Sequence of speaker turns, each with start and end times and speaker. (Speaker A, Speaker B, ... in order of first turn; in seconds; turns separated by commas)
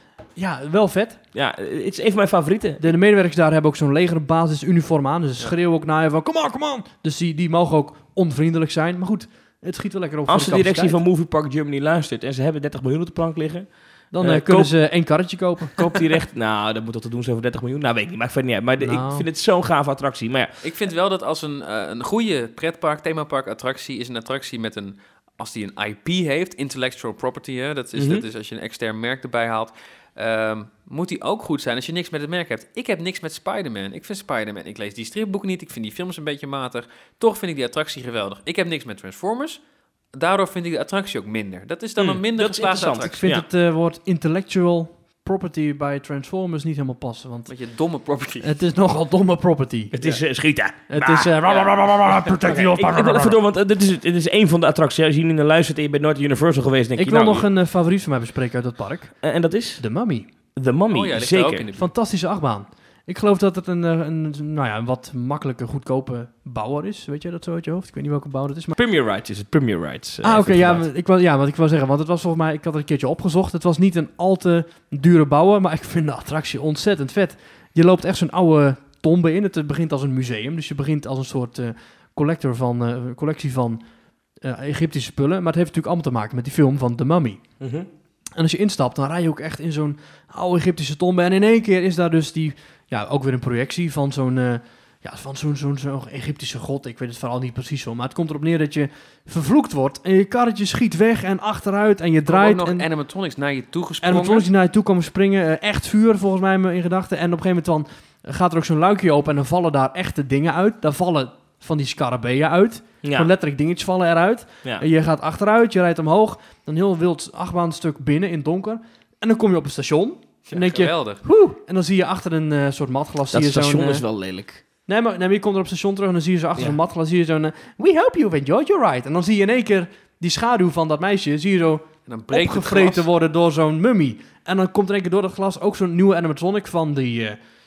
Speaker A: 0.3-1.2, Speaker B: 1.3-2.9, Speaker A: 2.8-11.0, Speaker B: 10.3-14.7, Speaker A: 14.1-15.9, Speaker B: 15.8-20.6, Speaker A: 18.8-19.2, Speaker C: 20.6-39.6, Speaker B: 27.9-28.2, Speaker C: 40.1-43.2, Speaker B: 42.0-43.5, Speaker A: 43.0-47.5, Speaker C: 47.5-48.5, Speaker A: 48.4-49.9, Speaker B: 49.9-57.5, Speaker A: 50.9-53.4, Speaker A: 57.0-59.2, Speaker B: 59.2-59.8, Speaker A: 59.8-60.3, Speaker B: 60.5-61.7, Speaker C: 60.9-61.9, Speaker A: 61.8-68.8, Speaker B: 68.8-70.8, Speaker A: 70.2-83.8, Speaker A: 84.4-87.4, Speaker B: 87.6-87.9, Speaker A: 88.4-102.8, Speaker C: 102.3-104.5, Speaker A: 104.0-124.0, Speaker B: 113.0-113.3, Speaker C: 120.5-121.2, Speaker B: 123.3-124.6, Speaker A: 124.9-137.4, Speaker C: 132.1-133.0